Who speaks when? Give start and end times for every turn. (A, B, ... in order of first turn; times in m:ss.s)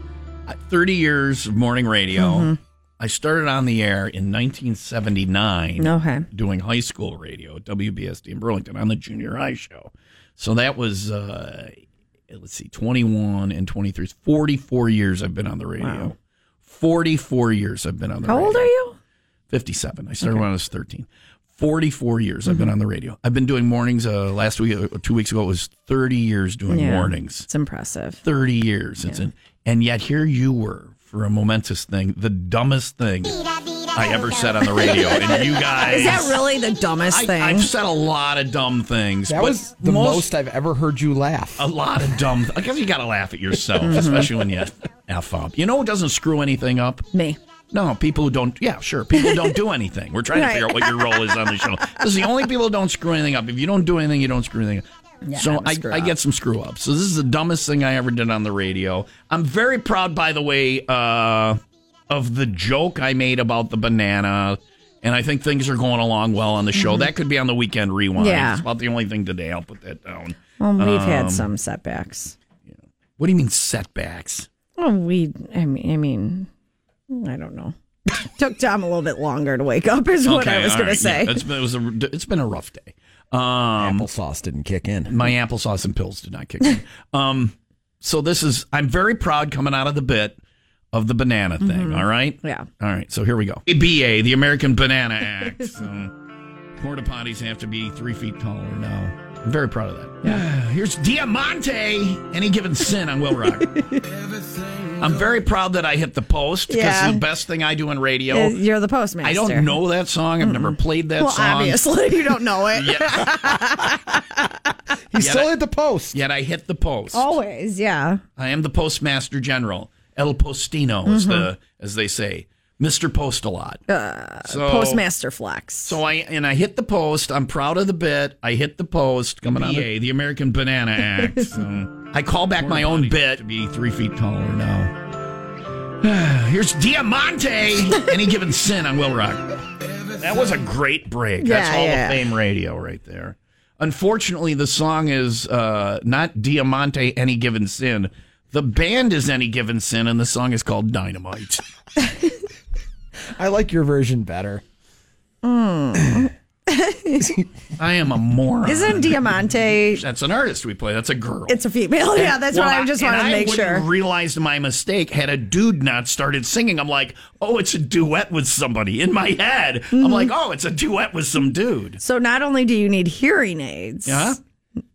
0:00.5-0:11.8 A
0:02.2-0:02.6 B
0:05.8-0:06.3 B
0:12.3-0:18.7 A
0:15.8-0:16.1 B
0:18.2-0:19.0 B
0:19.5-0:27.5 A
0:26.7-0:28.2 B
0:28.2-0:36.4 A
0:35.7-0:37.7 B
0:37.1-0:40.3 A
0:39.3-0:41.7 C
0:41.6-0:47.0 A
0:43.8-0:44.3 B
0:47.7-1:11.5 A
0:49.2-0:49.5 B
0:50.3-0:51.6 B
0:55.2-0:56.2 B
1:06.8-1:07.1 B
1:08.2-1:08.6 B
1:10.6-1:12.4 B
1:12.7-1:14.5 A
1:14.8-1:16.5 B
1:17.1-1:21.4 B
1:20.2-1:24.1 A
1:23.8-1:25.3 C
1:25.1-1:30.4 A
1:30.9-1:36.1 A
1:31.6-1:32.7 B
1:36.8-1:43.7 A
1:43.7-1:44.0 B
1:44.8-1:48.6 A
1:46.7-1:47.2 B
1:48.3-1:49.8 B
1:49.2-1:54.0 A
1:50.4-1:54.8 B
1:55.1-1:56.2 C
1:55.1-1:55.6 A
1:56.1-1:57.3 A
1:57.1-1:58.2 B
1:58.4-2:03.8 A
2:01.1-2:01.5 B
2:03.9-2:06.0 B
2:04.4-2:05.0 A
2:05.8-2:14.9 A
2:16.0-2:19.5 A
2:20.2-2:31.6 A
2:21.4-2:22.3 B
2:32.0-2:32.3 B
2:33.4-2:34.6 C
2:35.4-2:37.3 B
2:37.8-2:41.6 A
2:38.6-2:40.0 B
2:41.5-2:43.9 B
2:42.1-2:52.0 A
2:49.9-2:50.3 B
2:52.0-2:54.4 B
2:54.1-2:54.4 A